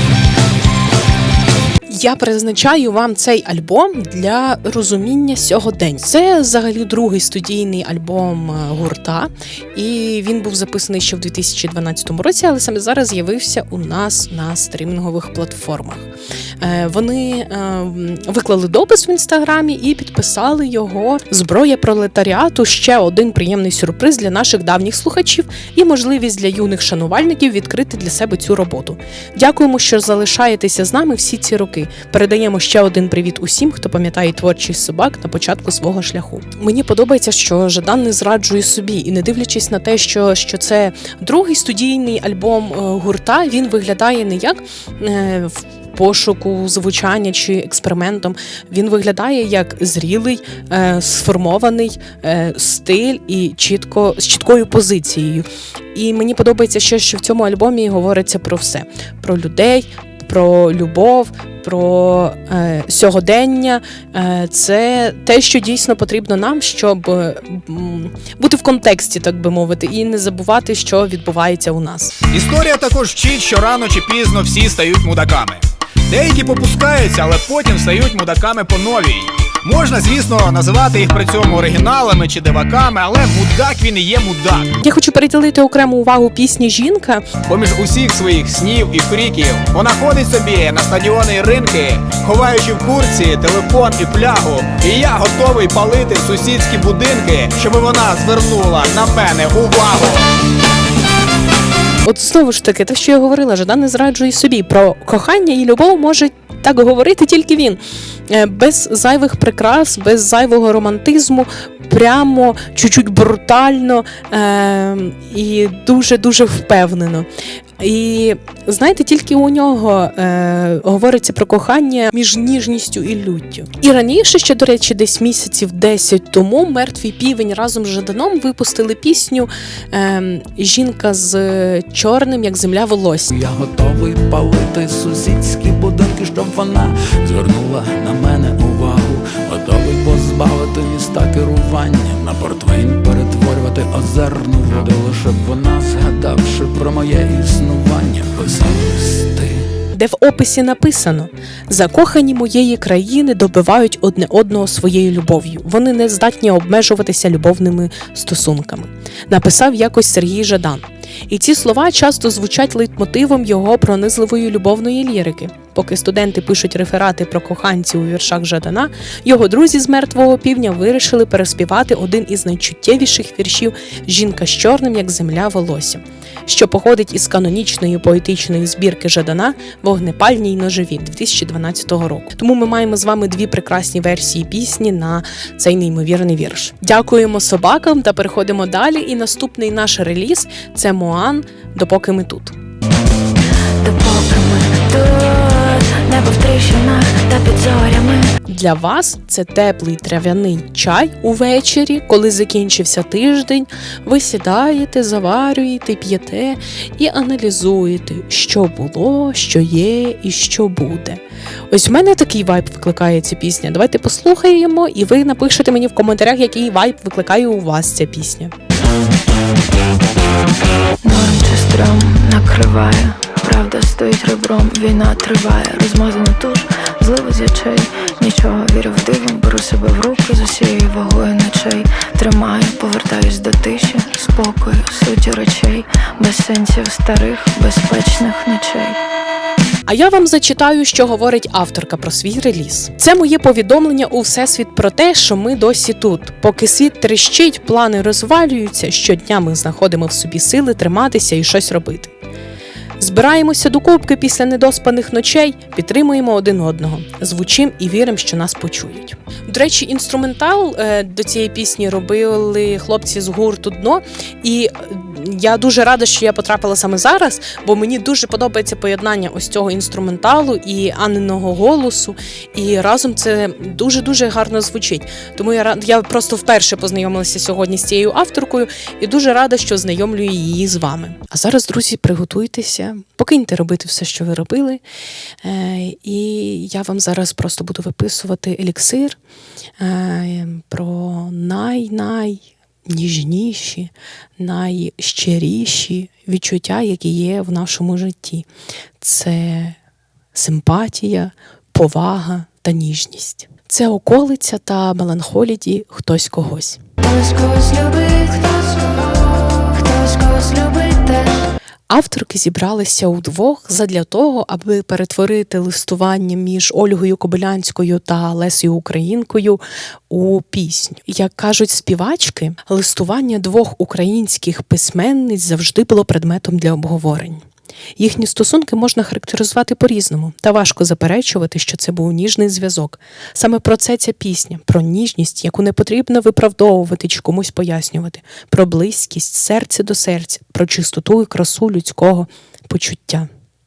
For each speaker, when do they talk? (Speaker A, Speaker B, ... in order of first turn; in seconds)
Speaker A: 1.9-16.1, 16.6-72.2, 84.8-87.3, 102.0-117.3, 117.8-133.3, 149.9-192.5, 198.4-211.2, 211.7-218.5, 239.8-252.1, 253.0-284.8, 285.4-289.2, 289.8-298.5, 299.0-299.8, 300.3-306.8, 311.9-327.4, 328.0-343.3
Speaker B: 72.3-84.7, 87.4-100.2
Speaker C: 133.3-149.6
Speaker D: 193.8-198.3, 221.0-239.0, 307.0-311.3